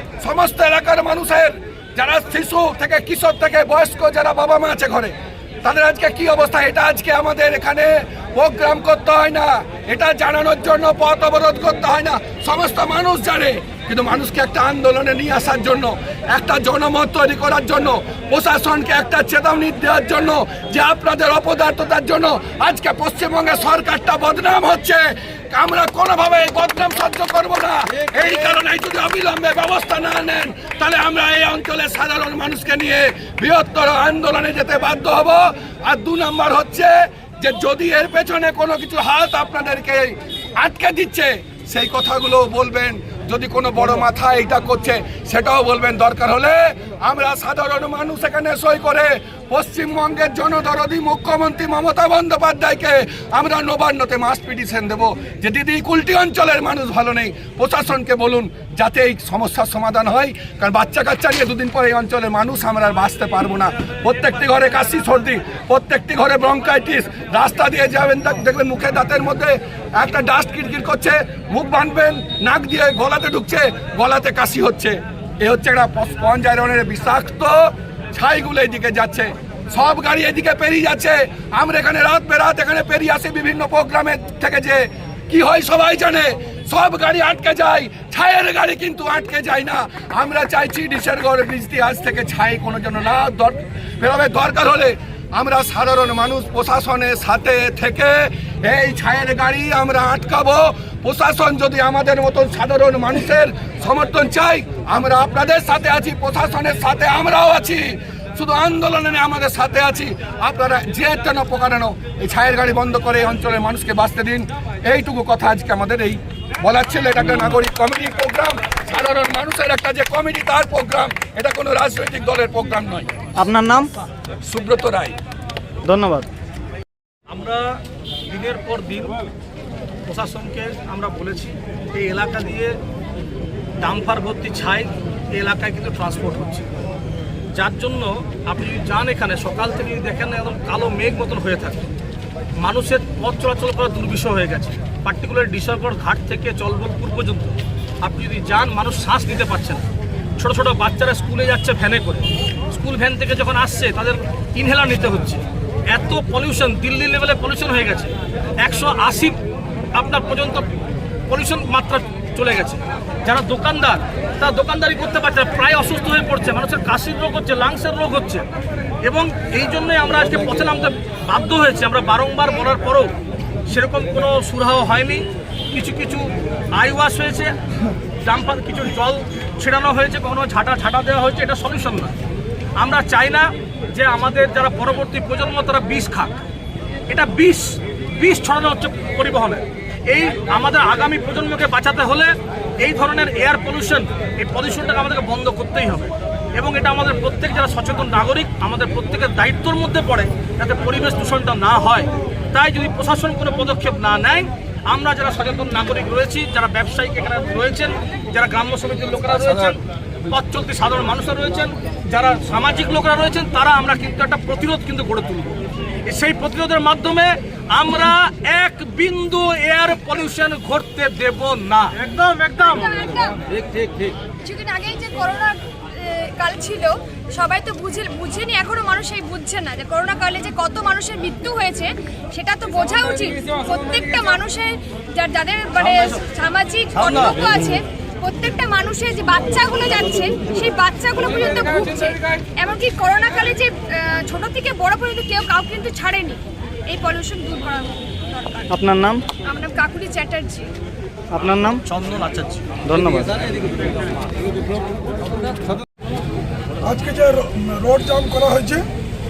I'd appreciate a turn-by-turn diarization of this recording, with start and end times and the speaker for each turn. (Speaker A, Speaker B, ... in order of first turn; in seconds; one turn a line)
Speaker A: 0.2-123.2
Speaker B: 123.4-123.9
Speaker A: 124.4-125.2
Speaker B: 125.8-126.3
Speaker C: 127.3-129.2
Speaker C: 130.1-132.8
Speaker C: 133.8-136.7
Speaker C: 137.6-141.9
Speaker C: 142.6-149.8
Speaker C: 150.4-159.4
Speaker C: 159.9-160.7
Speaker C: 161.3-168.4
Speaker C: 169.0-173.1
Speaker C: 173.7-177.5
Speaker C: 178.2-182.1
Speaker C: 182.8-186.4
Speaker C: 187.1-222.9
Speaker D: 222.5-223.4
Speaker C: 223.5-224.1
Speaker D: 224.4-248.6
Speaker C: 235.8-236.3
Speaker C: 236.9-237.8
Speaker B: 248.7-249.2
Speaker D: 249.4-250.7
Speaker B: 251.3-251.8
Speaker C: 251.8-252.6
Speaker B: 252.9-253.3
Speaker E: 256.8-258.8